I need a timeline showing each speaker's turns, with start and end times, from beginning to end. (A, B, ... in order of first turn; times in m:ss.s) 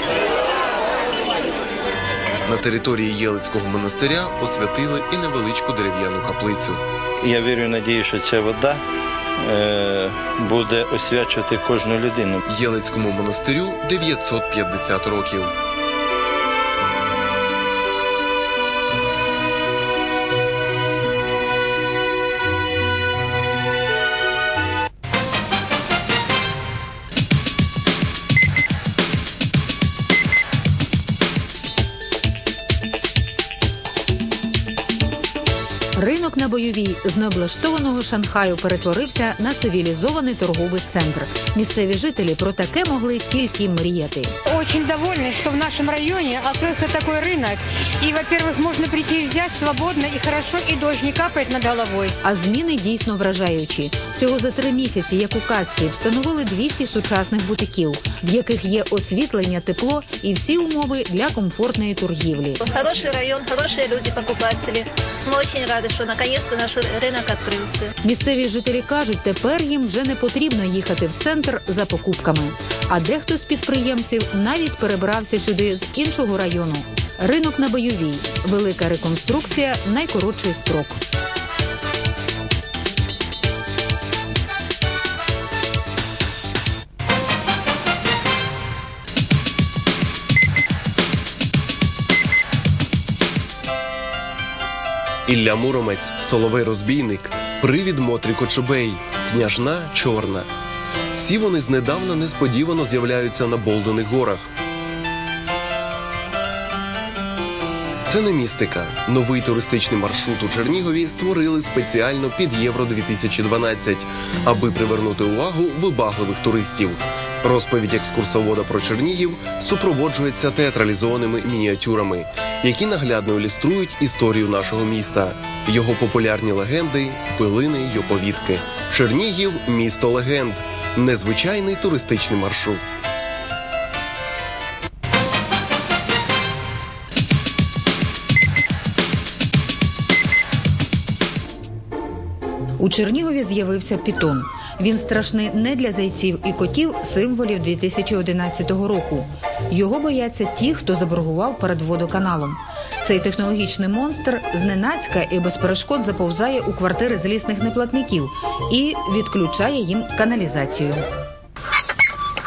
0:02.5-0:06.8 A
0:07.2-0:08.8 B
0:09.4-0:12.4 B
0:12.5-0:15.5 A
0:35.9-0:44.3 C
0:44.5-0:52.1 D
0:52.2-1:02.6 C
1:02.6-1:07.9 E
1:08.0-1:21.0 C
1:35.3-1:40.5 A
1:41.2-1:44.5 A
1:48.1-2:12.8 A
2:22.8-2:41.0 C